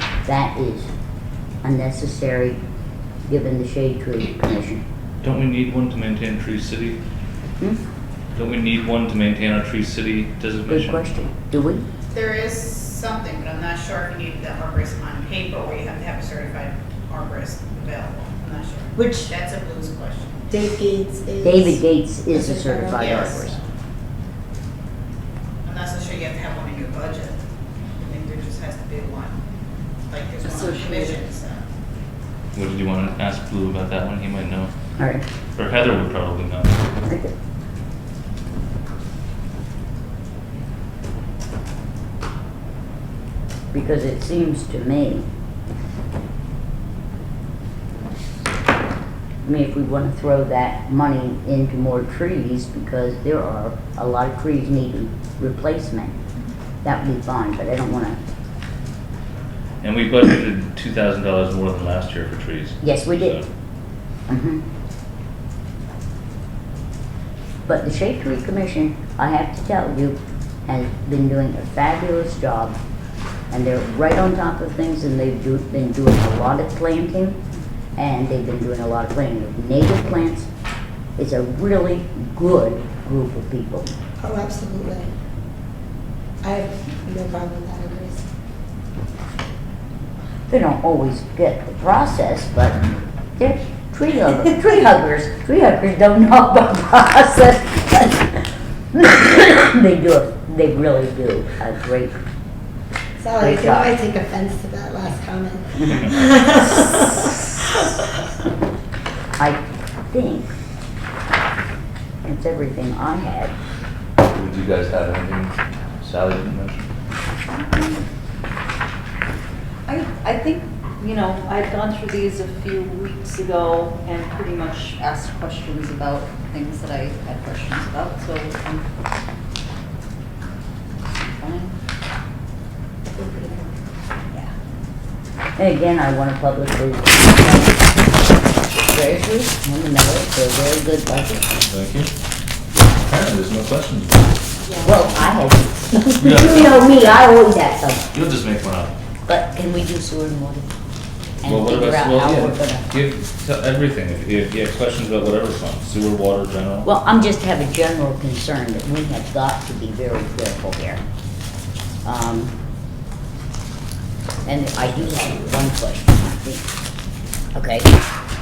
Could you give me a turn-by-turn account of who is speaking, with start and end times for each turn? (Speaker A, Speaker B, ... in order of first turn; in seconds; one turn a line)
Speaker A: 0.2-0.9
Speaker A: 1.6-2.6
Speaker A: 3.3-4.8
Speaker B: 5.2-7.0
Speaker B: 8.3-11.1
Speaker A: 10.7-11.8
Speaker C: 12.1-20.5
Speaker D: 19.0-19.3
Speaker D: 20.5-23.6
Speaker A: 21.4-23.6
Speaker C: 22.9-23.5
Speaker C: 25.6-27.4
Speaker C: 28.0-29.4
Speaker C: 30.1-31.6
Speaker E: 30.4-31.2
Speaker B: 32.5-34.7
Speaker A: 35.0-35.2
Speaker B: 35.6-36.8
Speaker A: 37.0-37.3
Speaker A: 43.7-45.3
Speaker A: 49.4-56.2
Speaker A: 56.8-58.2
Speaker B: 59.8-63.5
Speaker A: 62.8-63.4
Speaker A: 64.3-64.6
Speaker A: 67.7-72.8
Speaker A: 73.5-77.4
Speaker A: 78.0-80.5
Speaker A: 81.2-83.9
Speaker D: 84.2-85.1
Speaker D: 86.4-88.2
Speaker A: 90.5-98.4
Speaker A: 98.9-102.2
Speaker D: 103.2-107.1
Speaker A: 103.4-104.0
Speaker A: 109.4-110.5
Speaker A: 112.2-113.5
Speaker B: 114.3-116.9
Speaker E: 117.5-118.0
Speaker E: 119.9-128.8
Speaker E: 131.2-131.7
Speaker D: 133.1-133.8
Speaker A: 135.6-138.0
Speaker A: 138.8-141.5
Speaker B: 141.6-142.1
Speaker B: 142.8-144.4
Speaker A: 144.8-148.1
Speaker B: 146.2-147.0
Speaker B: 148.1-148.9
Speaker A: 149.3-150.7
Speaker A: 151.4-152.9
Speaker B: 151.4-156.9
Speaker A: 156.8-161.0
Speaker A: 162.0-162.5
Speaker A: 164.4-166.7
Speaker A: 167.6-167.9